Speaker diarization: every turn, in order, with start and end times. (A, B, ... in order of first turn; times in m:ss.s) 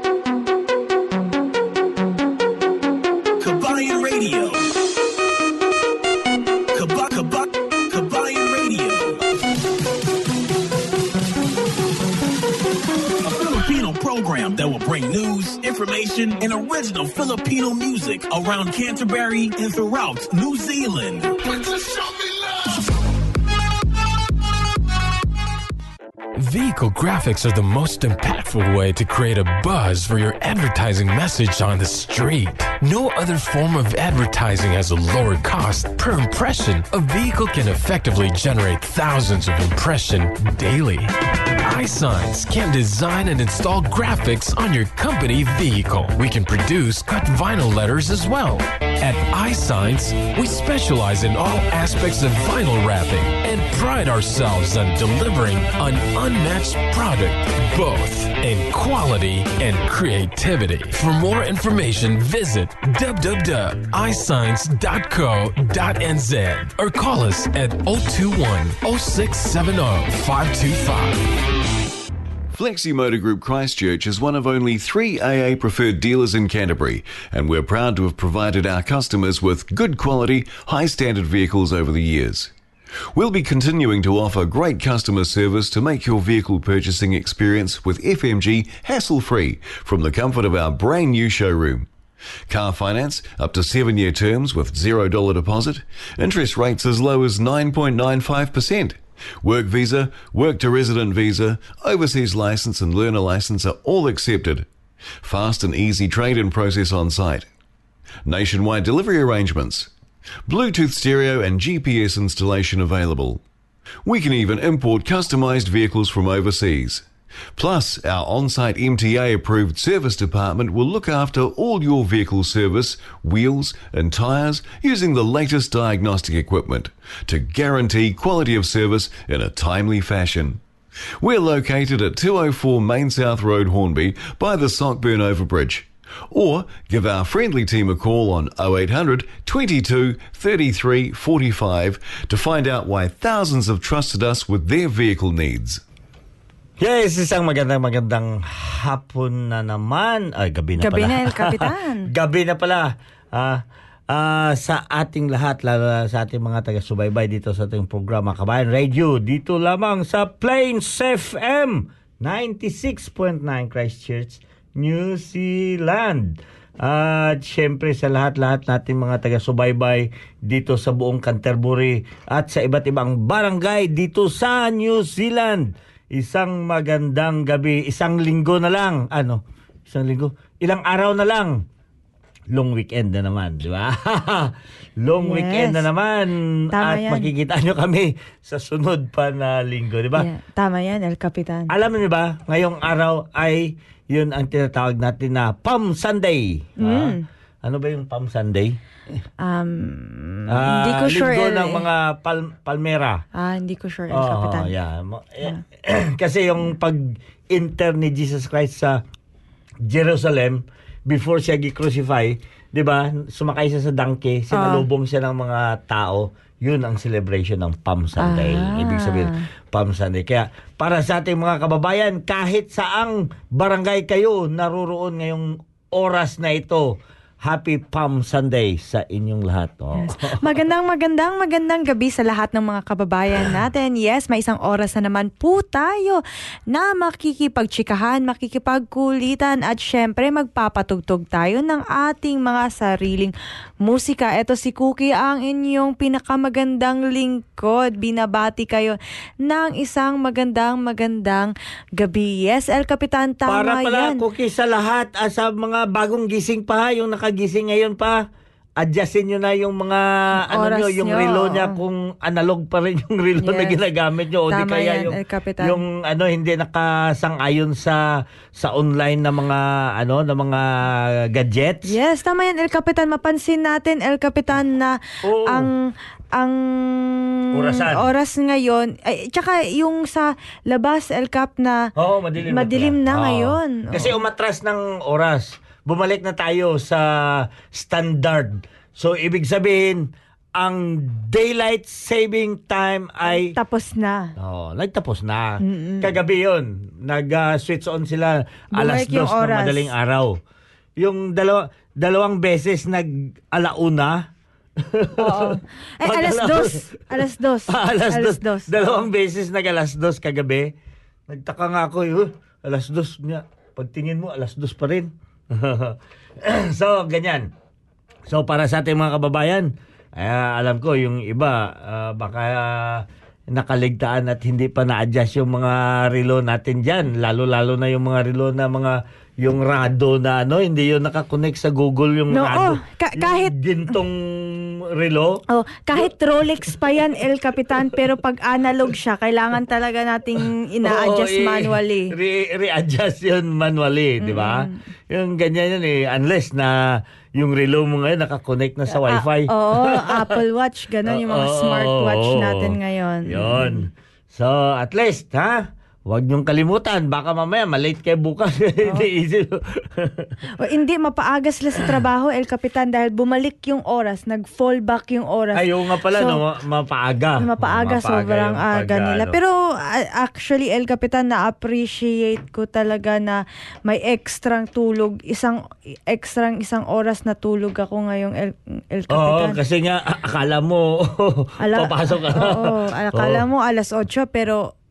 0:03.4-0:04.7 A
0:06.7-0:09.2 A
0:13.2-0:21.5 A
0:26.4-0:41.1 B
0:41.6-1:11.2 B
1:12.5-1:22.5 C
1:23.1-1:31.9 C
1:32.5-1:44.7 C
1:45.2-1:47.5 C
1:48.2-1:49.9 C
1:50.5-1:53.4 C
1:54.0-2:10.6 C
2:11.2-2:25.8 C
2:26.8-3:01.6 D
2:30.8-2:32.1 E
3:02.5-3:10.3 D
3:05.2-3:05.9 E
3:06.7-3:07.3 E
3:10.2-3:11.7 E
3:11.7-3:18.8 D
3:16.8-3:17.2 E
3:19.4-3:21.8 E
3:20.5-3:23.2 D
3:23.3-3:24.7 E
3:24.1-3:29.0 D
3:29.8-3:50.6 D
3:34.5-3:34.8 E
3:38.2-3:39.3 E
3:50.0-4:14.2 E
4:13.5-4:18.2 D
4:18.8-4:28.0 D
4:20.5-4:21.8 E
4:23.4-4:23.8 E
4:24.5-4:25.8 E
4:28.6-4:31.9 D
4:31.9-4:41.8 E
4:35.2-4:35.7 D
4:37.5-4:38.1 D
4:42.0-4:53.6 D
4:42.4-4:44.1 E
4:53.2-4:54.3 E
4:54.4-5:00.4 D
4:55.6-4:56.1 E
4:58.8-4:59.9 E
5:01.0-5:04.2 D
5:04.8-5:07.0 D
5:05.2-5:08.7 E
5:07.7-5:10.7 D
5:11.3-5:17.5 D
5:18.3-5:35.4 D
5:32.3-5:33.5 E
5:35.5-5:42.1 E
5:35.9-5:37.0 D
5:40.8-5:50.4 D
5:44.2-5:44.8 E
5:48.9-5:53.8 E
5:51.1-6:00.4 D
6:00.6-6:06.4 E
6:05.6-6:09.4 D
6:07.4-6:19.6 E
6:19.1-6:23.4 D
6:21.6-6:24.6 E